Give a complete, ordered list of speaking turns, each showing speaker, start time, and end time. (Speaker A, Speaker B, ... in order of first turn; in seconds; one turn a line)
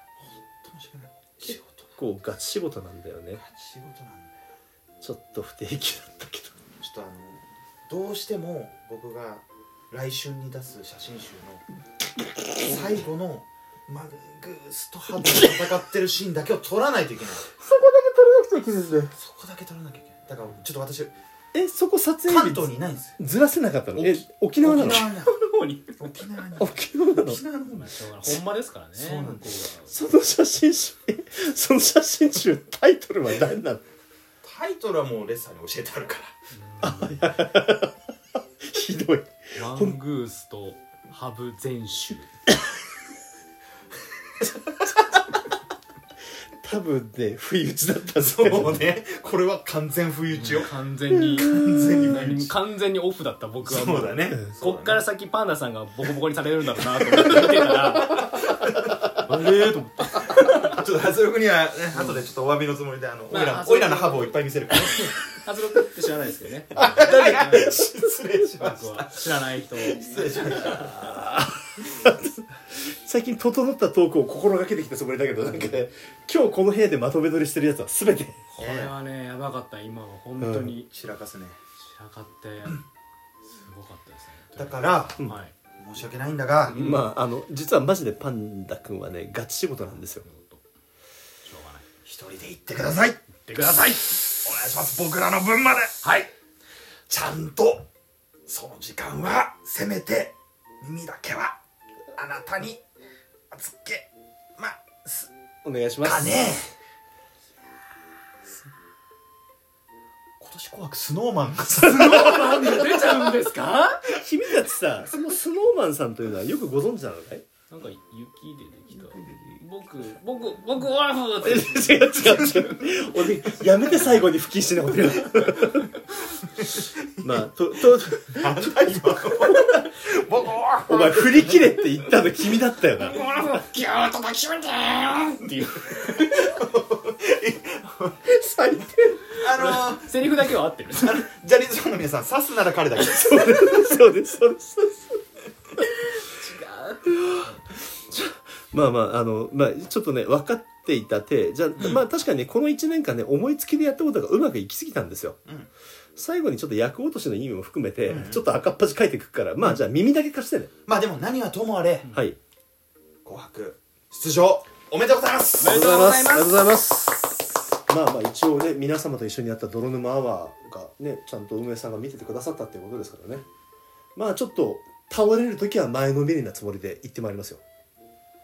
Speaker A: 0.1-2.0
Speaker B: 1.4-3.4
Speaker A: 3.3-4.3
Speaker B: 5.0-6.5
Speaker A: 6.8-11.6
Speaker A: 12.6-17.5
Speaker B: 17.6-19.1
Speaker A: 19.1-21.1
Speaker B: 21.5-25.1
Speaker A: 22.3-23.2
Speaker A: 24.0-25.3
Speaker C: 24.7-26.0
Speaker A: 26.0-29.5
Speaker B: 26.6-27.4
Speaker C: 27.7-30.0
Speaker B: 29.9-33.8
Speaker A: 34.4-36.3
Speaker C: 36.5-37.4
Speaker B: 36.8-38.0
Speaker B: 38.6-40.0
Speaker C: 39.5-42.3
Speaker B: 46.6-49.0
Speaker A: 48.1-50.7
Speaker C: 50.4-51.5
Speaker B: 51.1-52.2
Speaker A: 51.3-52.5
Speaker C: 52.0-58.2
Speaker A: 53.6-55.0
Speaker A: 57.8-59.0
Speaker C: 59.1-60.5
Speaker A: 60.2-65.1
Speaker C: 61.9-62.2
Speaker C: 63.3-67.6
Speaker A: 66.8-69.2
Speaker B: 66.9-67.7
Speaker C: 68.6-71.1
Speaker A: 69.8-71.2
Speaker B: 70.7-78.4
Speaker C: 75.5-75.8
Speaker C: 78.5-80.9
Speaker A: 78.6-78.9
Speaker B: 80.4-80.8
Speaker A: 80.8-81.6
Speaker C: 81.8-82.8
Speaker C: 83.5-85.5
Speaker A: 84.5-85.2
Speaker A: 85.8-86.8
Speaker C: 86.7-87.1
Speaker B: 86.7-90.2
Speaker C: 90.0-90.6
Speaker C: 91.4-91.8
Speaker A: 92.0-96.0
Speaker C: 93.5-94.2
Speaker C: 96.0-96.3
Speaker A: 97.1-97.9
Speaker A: 98.5-101.6
Speaker A: 102.1-102.8
Speaker A: 103.5-105.3
Speaker B: 105.6-106.4
Speaker A: 106.0-106.7
Speaker A: 110.4-113.0
Speaker C: 111.8-114.1
Speaker B: 112.6-113.3
Speaker B: 114.1-117.5
Speaker C: 117.7-123.2
Speaker A: 119.1-119.4
Speaker B: 121.4-126.0
Speaker C: 123.8-124.3
Speaker A: 126.4-127.3
Speaker B: 127.2-129.9
Speaker A: 128.3-131.8
Speaker B: 130.9-133.2
Speaker C: 133.0-136.5
Speaker A: 135.7-138.3
Speaker B: 138.3-139.2
Speaker A: 139.2-144.1
Speaker C: 139.5-141.3
Speaker B: 143.0-145.2
Speaker C: 146.1-147.6
Speaker B: 148.1-155.4
Speaker B: 156.2-160.7
Speaker A: 158.1-158.4
Speaker A: 160.8-162.1
Speaker C: 162.0-162.3
Speaker B: 162.1-162.4
Speaker A: 163.2-165.8
Speaker C: 165.6-166.7
Speaker B: 165.6-173.4
Speaker B: 174.1-177.6